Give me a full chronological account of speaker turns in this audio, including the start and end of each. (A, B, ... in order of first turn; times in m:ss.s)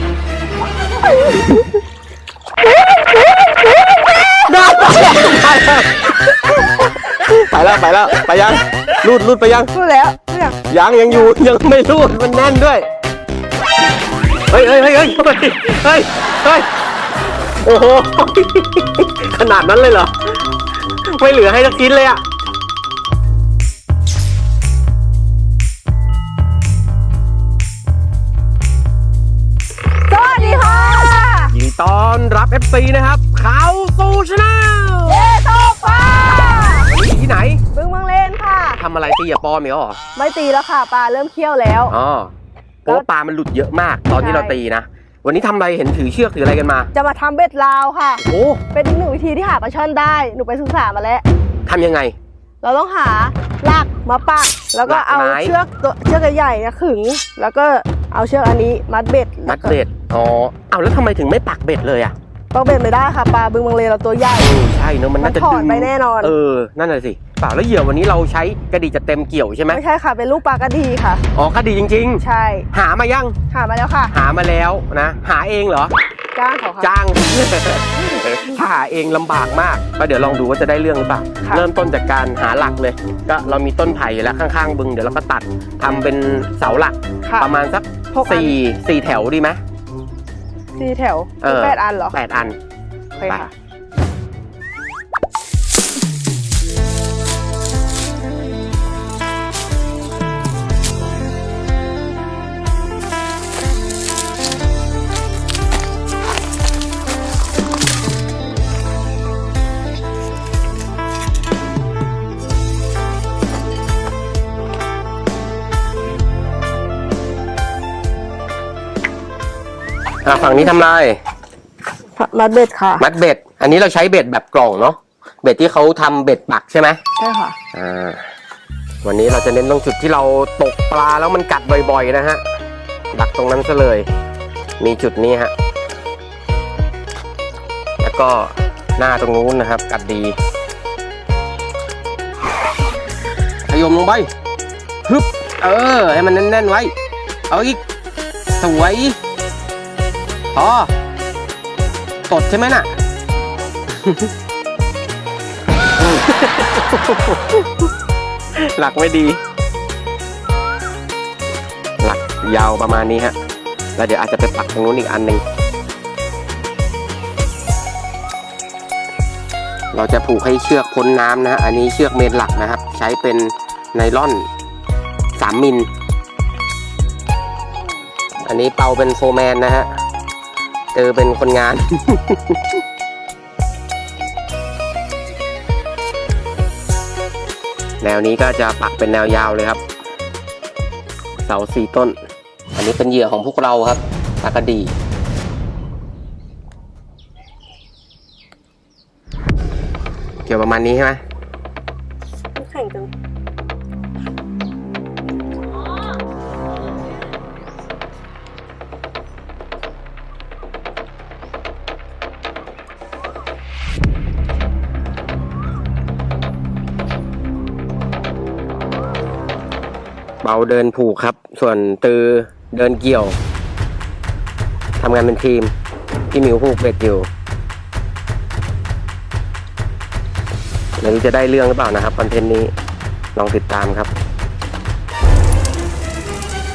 0:04.3-0:06.4 A
0:07.0-0:09.7 A
0:09.7-0:10.6 B
0:10.7-0:12.9 A
0:14.5-0:16.7 A
0:17.6-0:20.1 A
0:20.9-0:22.2 A
0:30.1-0:31.5 B
0:31.5-0:35.4 A
0:35.1-0:36.9 B
0:36.2-0:37.6 A
0:37.7-0:38.8 B
0:38.8-0:40.0 A
0:40.2-0:41.9 B
0:41.9-0:42.3 A
0:42.8-0:46.9 A
0:44.2-0:44.6 B
0:46.9-0:51.2 B
0:48.2-0:48.6 A
0:51.7-0:52.2 A
0:52.6-0:59.8 B
0:54.9-0:55.6 A
0:59.5-1:02.1 A
1:02.5-1:04.5 B
1:04.4-1:09.8 A
1:05.2-1:06.3 B
1:09.7-1:11.2 B
1:11.3-1:13.4 A
1:12.2-1:12.7 B
1:13.5-1:14.1 B
1:14.1-1:16.0 A
1:16.4-1:16.9 B
1:16.8-1:29.6 A
1:27.2-1:27.5 B
1:28.1-1:28.6 B
1:30.8-1:32.2 B
1:31.4-1:32.6 A
1:33.2-1:33.5 B
2:00.2-2:01.2 A
2:02.2-2:03.1 B
2:03.0-2:07.0 A
2:07.2-2:07.6 B
2:07.7-2:08.2 A
2:09.0-2:12.4 A
2:13.1-2:14.1 A
2:14.8-2:15.5 A
2:18.0-2:20.4 A
2:23.7-2:24.3 A
2:25.1-2:26.9 A
2:27.5-2:27.8 A
2:28.6-2:29.2 A
2:30.5-2:30.9 A
2:32.3-2:32.9 A
2:33.9-2:34.3 A
2:36.0-2:37.6 A
2:38.6-2:39.4 A
2:42.0-2:43.4 A
2:44.0-2:45.4 A
2:49.9-2:54.5 A
2:55.4-2:55.9 A
2:58.5-2:59.9 A
3:01.0-3:02.6 A
3:08.0-3:09.8 A
3:11.5-3:12.2 A
3:12.7-3:14.9 A
3:20.5-3:21.2 A
3:22.6-3:23.1 B
3:40.4-3:43.4 A
3:45.0-3:45.7 A
3:46.3-3:47.3 A
3:51.0-3:52.7 A
3:53.4-3:54.1 A